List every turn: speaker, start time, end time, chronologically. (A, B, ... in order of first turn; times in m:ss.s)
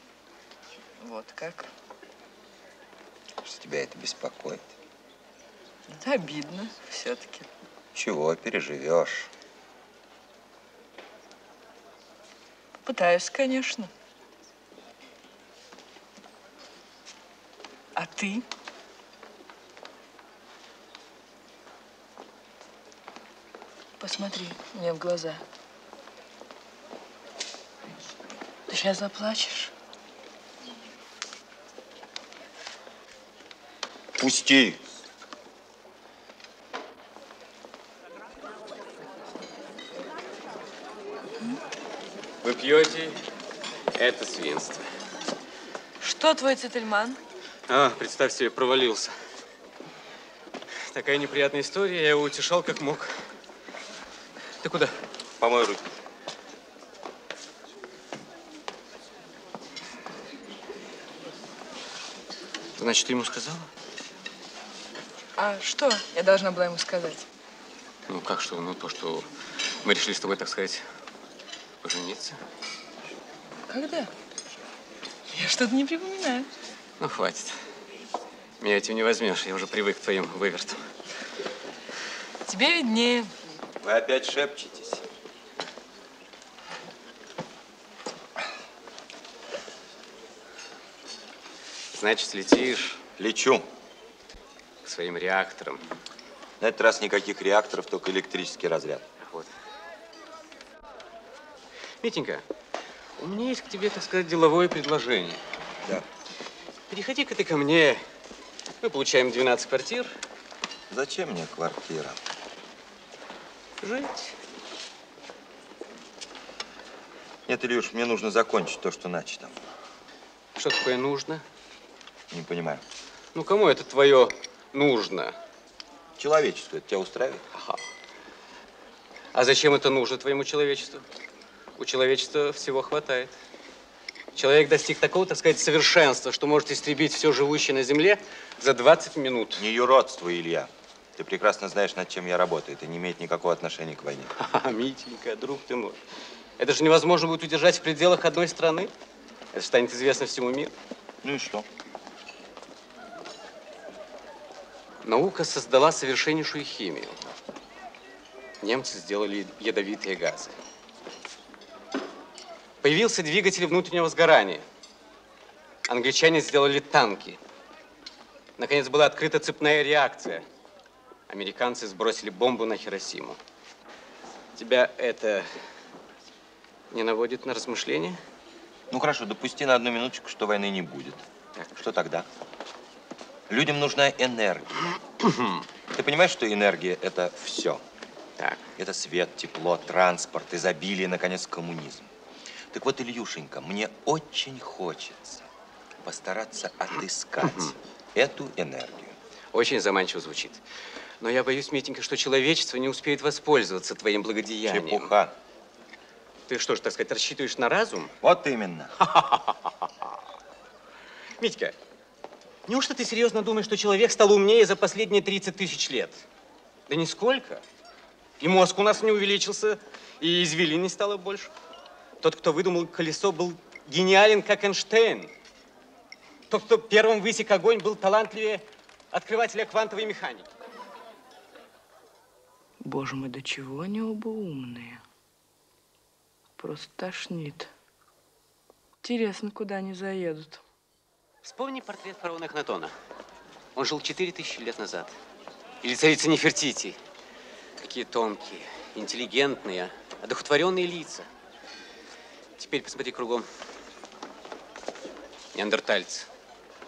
0:01.0-0:01.7 A
0:03.4-0:04.7 B
0:05.9-0:07.5 A
0:07.9-0:09.3 B
0:12.8-0:13.9 A
0:18.0-0:18.4 A
0:24.0-0:25.4 A
0:28.7-0:29.7 A
0:34.2-0:34.8 B
0:42.4-0:43.2 C
0:43.9-0:44.8 C
0:46.0-0:47.2 A
0:47.7-0:49.1 C
0:50.7-0:53.2 C
0:54.6-0:55.0 C
0:55.4-0:55.9 B
1:02.8-1:03.7 C
1:05.4-1:07.2 A
1:08.1-1:09.3 C
1:09.8-1:10.8 C
1:11.8-1:12.4 C
1:13.7-1:14.1 A
1:15.3-1:16.5 A
1:17.0-1:17.6 C
1:18.6-1:20.9 C
1:22.5-1:23.3 A
1:23.8-1:25.0 B
1:31.9-1:33.0 C
1:33.2-1:33.6 B
1:34.8-1:35.8 C
1:36.6-1:39.0 B
1:39.2-1:39.5 C
1:42.0-1:42.4 C
1:43.2-1:45.4 C
1:46.9-1:48.0 C
1:48.8-1:50.1 C
1:50.9-1:52.2 B
1:53.8-1:54.4 C
1:57.5-1:59.6 B
2:00.6-2:01.4 C
2:02.3-2:02.8 B
2:03.3-2:05.4 C
2:06.2-2:07.4 B
2:07.5-2:07.8 C
2:09.3-2:11.0 C
2:11.8-2:13.4 C
2:14.3-2:19.6 C
2:19.6-2:24.3 B
2:24.4-2:26.0 C
2:26.6-2:28.9 C
2:29.5-2:30.7 C
2:31.2-2:31.6 B
2:35.0-2:37.3 C
2:38.6-2:40.5 C
2:42.8-2:44.7 C
2:45.9-2:47.4 C
2:48.6-2:50.4 C
2:51.3-2:53.4 C
2:54.6-2:55.6 C
2:56.9-2:58.2 C
2:58.9-3:01.2 B
3:01.7-3:02.3 B
3:03.5-3:04.8 B
3:05.2-3:05.6 C
3:05.9-3:07.8 B
3:08.4-3:08.6 C
3:08.8-3:12.1 B
3:12.7-3:15.5 B
3:16.0-3:19.2 B
3:17.4-3:17.7 C
3:19.5-3:20.6 C
3:21.2-3:25.1 C
3:24.6-3:25.3 B
3:26.5-3:28.1 C
3:28.2-3:28.9 B
3:29.0-3:29.9 C
3:31.4-3:31.7 C
3:32.6-3:36.2 C
3:36.9-3:37.6 C
3:38.4-3:41.5 C
3:42.2-3:45.3 C
3:46.5-3:50.5 C
3:52.8-3:55.0 A
3:56.6-3:57.7 A
3:59.0-4:00.6 A
4:01.4-4:02.9 C
4:03.7-4:05.2 C
4:05.8-4:07.0 C
4:07.8-4:11.3 C
4:12.6-4:13.5 C
4:15.5-4:16.3 C